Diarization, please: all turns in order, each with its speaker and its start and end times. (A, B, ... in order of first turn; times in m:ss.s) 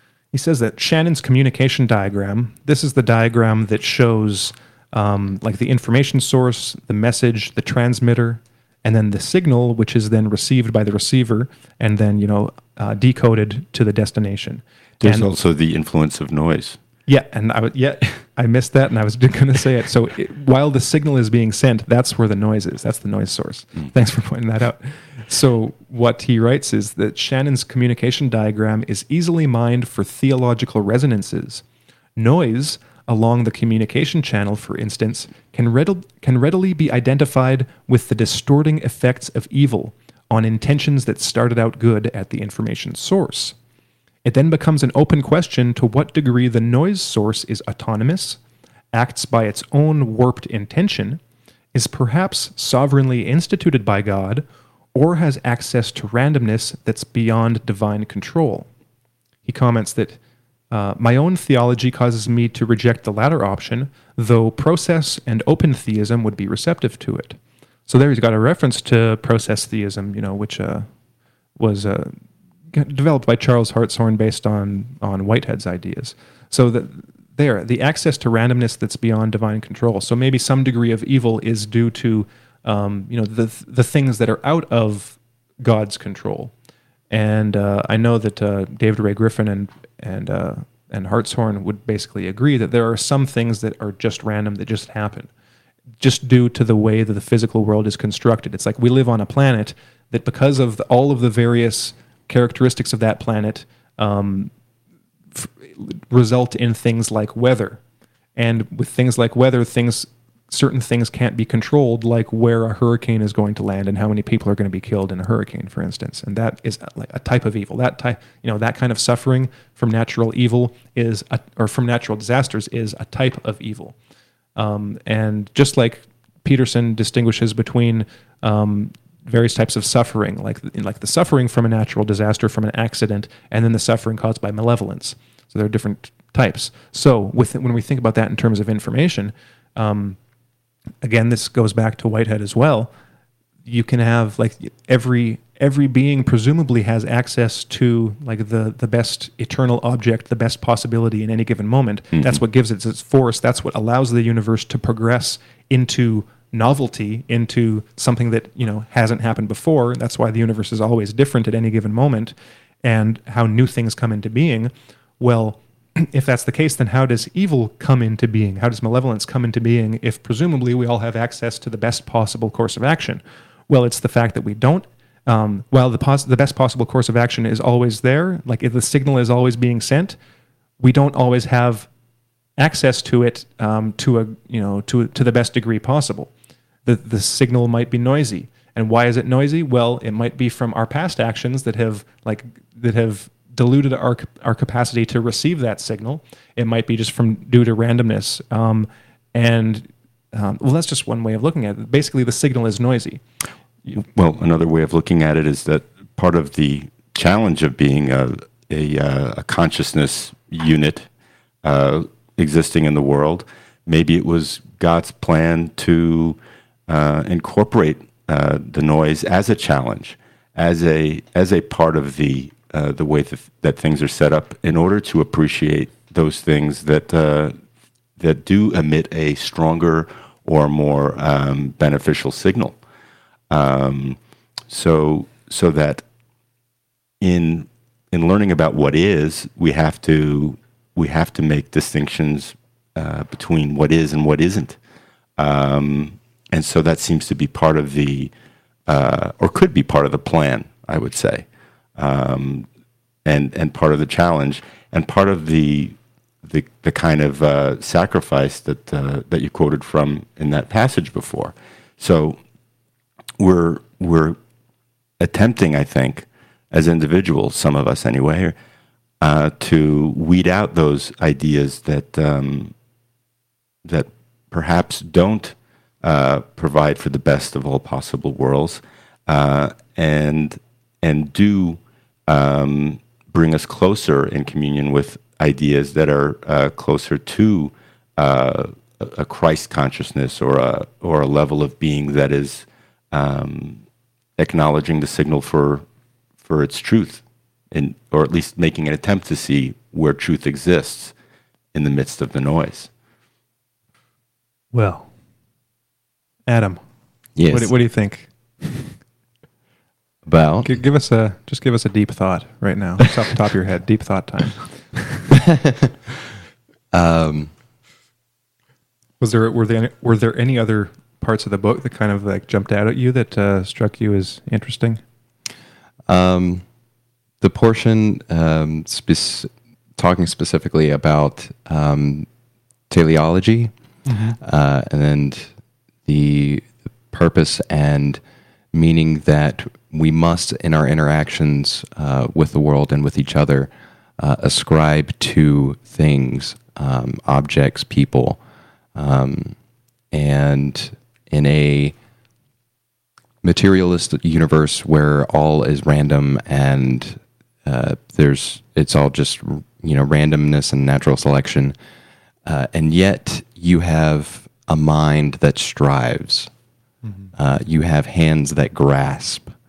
0:00.3-0:15.3 A
0:15.0-0:16.8 B
0:17.1-0:31.6 A
0:32.2-0:43.6 A
0:44.2-0:48.4 A
0:48.9-0:51.2 A
0:51.7-0:58.7 A
0:59.4-1:00.2 A
1:00.7-1:10.9 A
1:11.6-1:12.2 A
1:12.7-1:26.5 A
1:27.1-1:35.3 A
1:36.0-1:44.5 A
1:45.3-1:47.8 A
1:48.4-2:04.0 A
2:04.6-2:20.2 A
2:21.0-2:22.9 A
2:23.6-3:00.2 A
3:00.8-3:01.9 A
3:02.6-3:06.3 A
3:06.8-3:23.2 A
3:24.0-3:31.1 B
3:31.6-3:36.4 B
3:36.9-3:47.6 B
3:48.2-3:52.8 B
3:53.5-3:54.2 B
3:54.7-3:56.0 B
3:57.2-4:04.8 B
4:05.4-4:08.3 B
4:08.9-4:11.5 B
4:12.0-4:12.7 B
4:13.2-4:22.4 B
4:23.4-4:24.4 B
4:25.2-4:28.6 B
4:29.2-4:32.7 B
4:33.8-4:53.8 B
4:54.4-4:55.8 B
4:56.4-5:01.1 B
5:01.7-5:02.9 B
5:04.7-5:05.1 A
5:06.5-5:06.8 A
5:07.4-5:07.7 C
5:07.5-5:09.0 A
5:10.2-5:10.8 C
5:10.6-5:15.4 A
5:15.4-5:15.9 C
5:16.9-5:17.5 C
5:19.2-5:25.0 A
5:26.1-5:26.6 C
5:27.4-5:32.3 C
5:32.9-5:33.7 C
5:34.1-5:34.4 A
5:34.4-5:35.5 C
5:36.1-5:38.2 C
5:38.7-5:48.4 C
5:49.0-5:49.6 C
5:50.1-5:52.0 C
5:53.4-6:01.8 C
6:02.5-6:06.5 C
6:07.0-6:07.3 A
6:07.3-6:09.5 C